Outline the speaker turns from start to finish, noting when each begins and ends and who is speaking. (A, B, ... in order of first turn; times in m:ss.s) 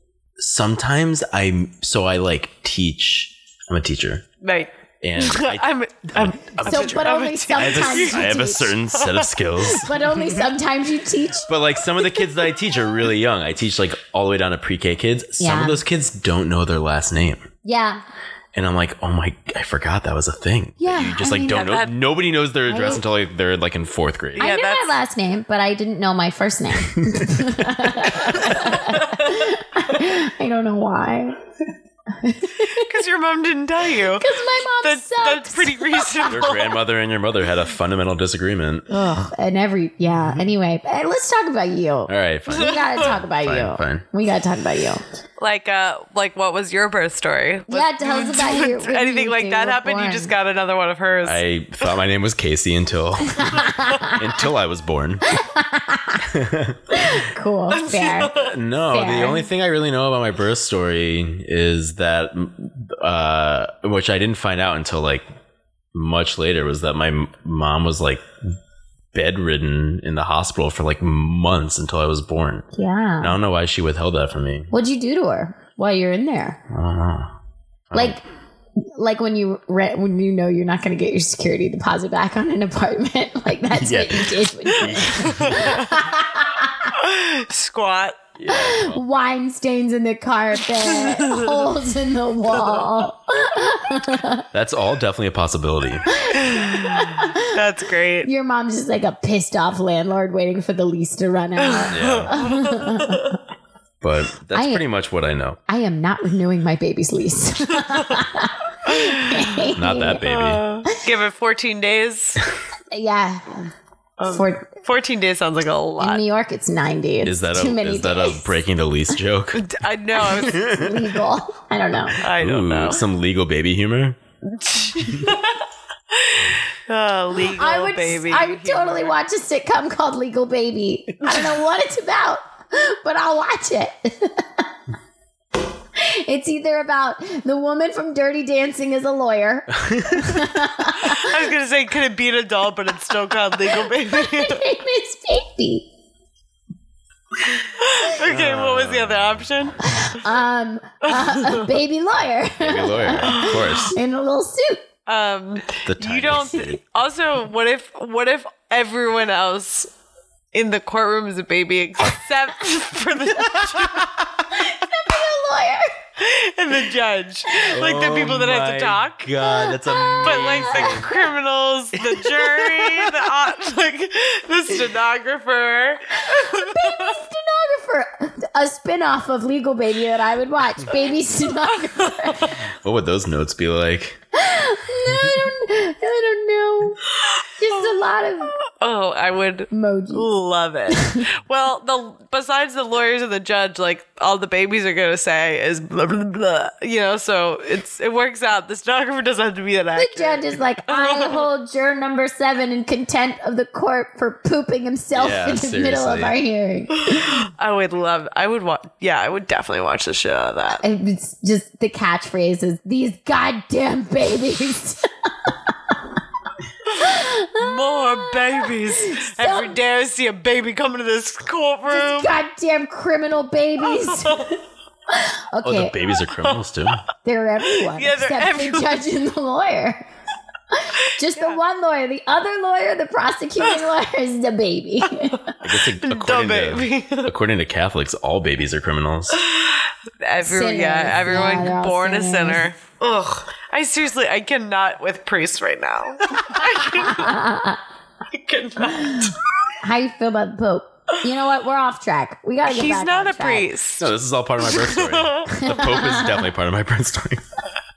0:00.4-0:04.2 A
0:04.4-0:09.3 B
0:05.0-0:10.2 A
0:06.6-0:08.7 C
0:09.6-0:11.5 C
0:11.5-0:17.4 A
0:15.4-0:15.8 C
0:17.6-0:18.0 C
0:18.5-0:24.5 A
0:20.8-0:21.8 C
0:21.5-0:21.9 B
0:22.7-0:23.0 C
0:24.4-0:25.0 B
0:24.4-0:31.4 C
0:27.0-0:27.6 A
0:32.1-0:32.9 C
0:32.7-0:36.7 B
0:34.2-0:36.3 C
0:36.3-0:39.0 A
0:38.9-0:45.0 C
0:42.1-0:44.0 A
0:42.6-0:43.0 B
0:45.4-0:51.4 B
0:47.7-0:50.3 C
0:51.2-0:55.2 A
0:53.4-0:54.2 C
0:55.3-0:56.2 C
0:56.2-0:57.1 A
0:56.9-0:58.3 C
0:57.7-0:58.5 B
0:58.3-1:05.2 A
0:58.9-0:59.5 C
1:05.9-1:08.2 A
1:09.1-1:12.6 A
1:12.7-1:13.4 C
1:13.2-1:14.7 A
1:14.7-1:16.6 C
1:16.7-1:17.3 A
1:17.9-1:18.2 A
1:17.9-1:18.2 C
1:18.8-1:26.9 C
1:23.7-1:25.8 A
1:25.2-1:25.8 B
1:27.0-1:28.2 B
1:28.4-1:29.0 A
1:28.5-1:34.4 C
1:30.8-1:31.6 B
1:34.5-1:36.1 A
1:36.2-1:37.5 C
1:36.3-1:38.3 B
1:38.2-1:43.3 C
1:41.6-1:43.2 B
1:41.9-1:42.3 A
1:44.0-1:45.6 A
1:44.5-1:44.8 C
1:45.7-1:50.2 C
1:48.9-1:49.5 B
1:49.8-1:50.6 A
1:50.2-1:52.4 B
1:52.9-1:53.4 C
1:54.2-1:56.2 B
1:54.3-1:54.7 C
1:56.0-1:58.5 C
1:57.2-1:59.6 A
1:59.5-2:00.7 B
2:00.4-2:02.2 C
2:00.6-2:00.9 A
2:02.2-2:03.0 B
2:02.2-2:04.2 A
2:04.5-2:05.6 B
2:06.1-2:09.2 B
2:07.5-2:14.4 C
2:16.0-2:21.3 C
2:19.8-2:20.4 A
2:21.0-2:24.6 B
2:24.1-2:25.8 C
2:27.7-2:29.8 B
2:28.2-2:29.7 A
2:29.9-2:34.8 C
2:31.1-2:31.7 B
2:32.6-2:33.9 A
2:35.1-2:39.9 B
2:35.8-2:36.8 A
2:40.5-2:44.1 B
2:44.6-2:46.0 C
2:46.2-2:49.2 B
2:47.7-2:51.1 A
2:49.6-2:51.0 C
2:50.2-2:57.2 B
2:52.0-2:53.2 A
2:56.3-3:02.5 C
3:02.0-3:02.5 B
3:02.8-3:04.2 A
3:04.3-3:07.0 C
3:07.6-3:08.5 C
3:08.7-3:21.4 B
3:09.7-3:10.3 C
3:10.9-3:11.2 C
3:20.0-3:27.4 C
3:25.1-3:26.4 A
3:27.0-3:30.8 B
3:30.8-3:35.5 C
3:36.9-3:39.7 C
3:37.6-3:42.4 B
3:41.9-3:44.5 C
3:43.9-3:44.5 B
3:45.1-3:46.0 C
3:45.6-3:47.0 A
3:47.2-3:50.0 C
3:47.8-3:49.0 B
3:50.7-3:55.5 C
3:51.3-3:51.6 B
3:55.6-3:59.4 A
3:56.0-3:57.3 B
3:59.4-4:07.4 B
4:00.4-4:02.6 C
4:06.9-4:07.8 C
4:08.3-4:09.4 B
4:08.9-4:09.3 C
4:09.8-4:13.7 C
4:12.6-4:14.1 B
4:14.0-4:17.4 A
4:14.6-4:15.5 B
4:15.5-4:16.4 C